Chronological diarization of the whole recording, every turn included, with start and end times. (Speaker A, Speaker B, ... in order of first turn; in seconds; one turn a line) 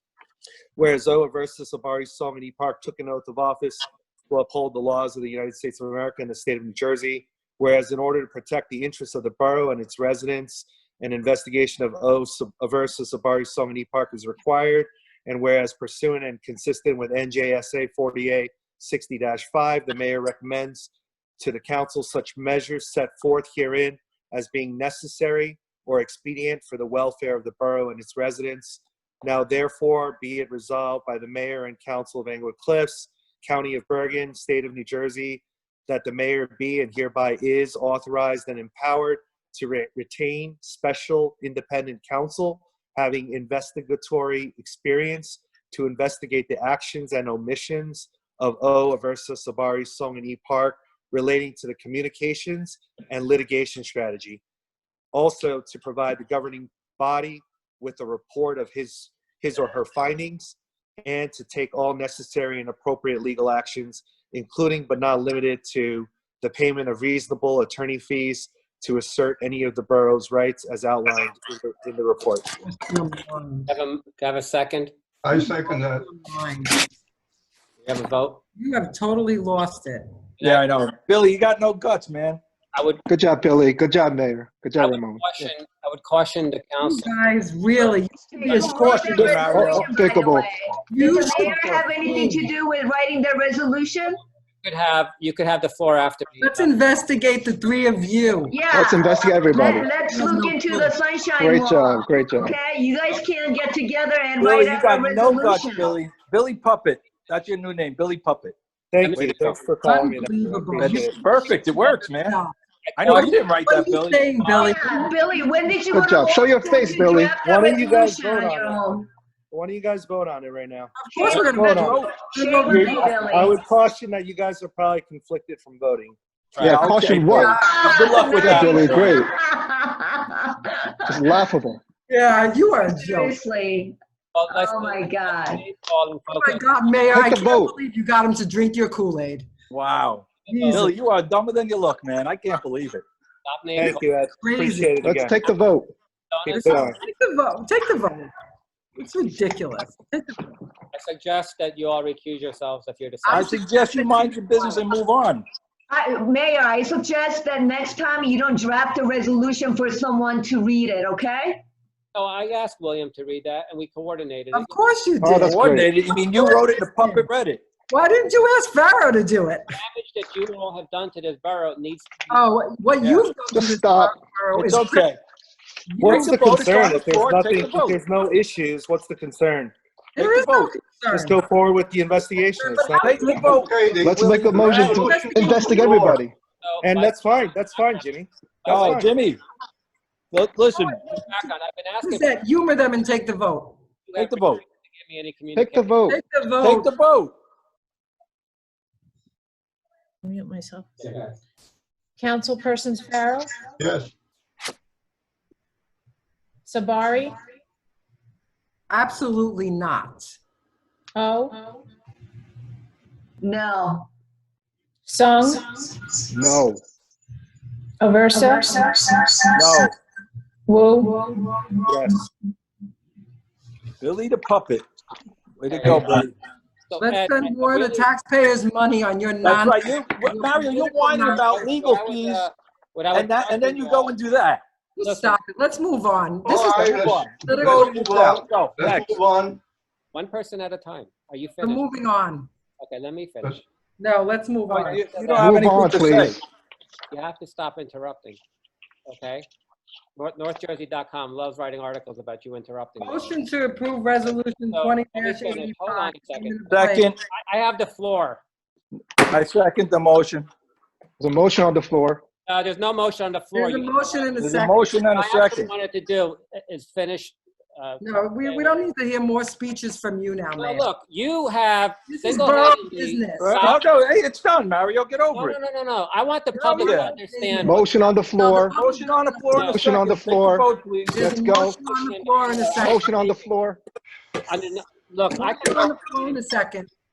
Speaker A: 0.8-54.4
Speaker A: 55.1-72.5
Speaker B: 72.7-73.7
Speaker C: 73.7-74.9
Speaker B: 75.3-76.8
Speaker D: 75.3-76.0
Speaker C: 77.8-78.4
Speaker B: 78.6-80.1
Speaker C: 80.4-80.7
Speaker E: 80.4-82.4
Speaker C: 82.7-83.0
Speaker F: 83.1-85.2
Speaker C: 84.8-87.2
Speaker B: 86.8-89.4
Speaker G: 88.3-94.2
Speaker E: 88.6-89.9
Speaker F: 89.2-90.5
Speaker B: 90.9-92.5
Speaker C: 94.6-96.8
Speaker B: 96.4-98.6
Speaker G: 98.5-105.9
Speaker F: 98.7-99.9
Speaker B: 100.0-101.0
Speaker F: 101.4-102.5
Speaker E: 104.4-108.6
Speaker A: 108.9-111.2
Speaker C: 109.0-109.7
Speaker B: 109.8-112.5
Speaker E: 110.8-112.4
Speaker C: 112.9-113.4
Speaker E: 113.0-114.5
Speaker B: 113.2-115.7
Speaker G: 114.5-119.0
Speaker F: 115.9-117.3
Speaker A: 117.4-122.1
Speaker B: 121.0-123.5
Speaker E: 121.7-122.1
Speaker G: 122.2-123.6
Speaker A: 122.7-126.2
Speaker C: 126.5-126.8
Speaker F: 126.6-127.6
Speaker E: 126.6-129.2
Speaker B: 127.3-128.6
Speaker G: 127.6-131.2
Speaker F: 128.4-129.3
Speaker F: 131.1-131.8
Speaker B: 132.1-133.4
Speaker G: 132.8-134.0
Speaker C: 134.3-136.7
Speaker G: 134.5-135.6
Speaker B: 136.3-139.5
Speaker F: 137.1-137.8
Speaker E: 139.7-143.0
Speaker B: 140.5-140.9
Speaker C: 140.5-140.9
Speaker C: 143.4-144.1
Speaker A: 143.8-145.4
Speaker B: 144.4-145.0
Speaker F: 145.0-145.9
Speaker C: 146.3-146.9
Speaker A: 146.5-147.0
Speaker B: 146.5-148.3
Speaker B: 149.0-150.4
Speaker C: 150.9-153.6
Speaker B: 153.2-154.6
Speaker E: 153.3-155.4
Speaker G: 155.9-161.6
Speaker C: 162.1-164.8
Speaker B: 164.5-167.3
Speaker F: 165.2-165.9
Speaker E: 165.4-167.6
Speaker B: 167.9-169.8
Speaker C: 169.7-172.5
Speaker B: 172.3-175.1
Speaker E: 173.0-173.3
Speaker F: 173.5-174.1
Speaker E: 174.5-175.2
Speaker B: 175.9-176.3
Speaker A: 176.0-179.8
Speaker E: 176.1-178.0
Speaker B: 180.2-181.4
Speaker E: 180.2-180.7
Speaker A: 181.1-183.6
Speaker B: 182.6-183.7
Speaker E: 182.8-186.2
Speaker D: 183.5-185.6
Speaker F: 184.0-186.3
Speaker B: 184.6-186.1
Speaker C: 186.6-188.1
Speaker A: 186.8-189.1
Speaker C: 188.6-189.0
Speaker E: 188.7-189.4
Speaker E: 190.3-191.0
Speaker C: 190.8-192.4
Speaker B: 192.0-193.8
Speaker C: 194.1-196.0
Speaker E: 194.2-194.6
Speaker F: 195.6-196.2
Speaker B: 196.1-196.9
Speaker E: 196.5-197.3
Speaker H: 200.2-201.1
Speaker C: 201.0-201.3
Speaker H: 202.2-203.6
Speaker H: 206.7-207.4
Speaker B: 208.9-210.3
Speaker H: 211.2-211.8
Speaker G: 213.4-214.1
Speaker H: 215.1-216.4
Speaker H: 218.0-219.9
Speaker E: 219.6-219.9
Speaker H: 220.7-221.8
Speaker A: 221.9-222.2
Speaker E: 224.0-224.9
Speaker E: 225.6-226.3
Speaker C: 225.7-226.3
Speaker C: 226.9-228.1
Speaker B: 227.0-231.5
Speaker E: 229.4-232.4
Speaker C: 230.7-234.2
Speaker E: 233.1-234.6
Speaker B: 235.0-238.1
Speaker C: 235.0-235.4
Speaker D: 236.4-239.6
Speaker E: 236.5-239.2
Speaker C: 240.1-242.0
Speaker B: 241.6-242.5
Speaker C: 242.8-243.6
Speaker B: 244.0-245.2
Speaker E: 244.7-246.4
Speaker C: 245.1-245.7
Speaker F: 245.4-246.4
Speaker C: 247.1-248.4
Speaker C: 249.1-249.5
Speaker C: 250.2-253.4
Speaker B: 253.0-257.1
Speaker C: 254.2-256.6
Speaker E: 256.7-257.2
Speaker C: 257.3-258.4
Speaker E: 259.2-260.5
Speaker F: 261.2-262.2
Speaker C: 262.5-268.9
Speaker B: 263.5-264.9
Speaker E: 264.4-265.7
Speaker B: 268.0-270.9
Speaker C: 270.6-273.9
Speaker B: 272.1-273.8
Speaker E: 273.4-275.6
Speaker C: 275.3-277.8
Speaker B: 276.5-279.6
Speaker E: 276.8-277.2
Speaker F: 277.7-278.8
Speaker E: 278.4-281.3
Speaker C: 279.5-279.8
Speaker F: 279.7-281.8
Speaker B: 281.1-283.1
Speaker C: 281.5-283.5
Speaker F: 282.8-283.8
Speaker C: 284.5-286.4
Speaker B: 285.3-286.9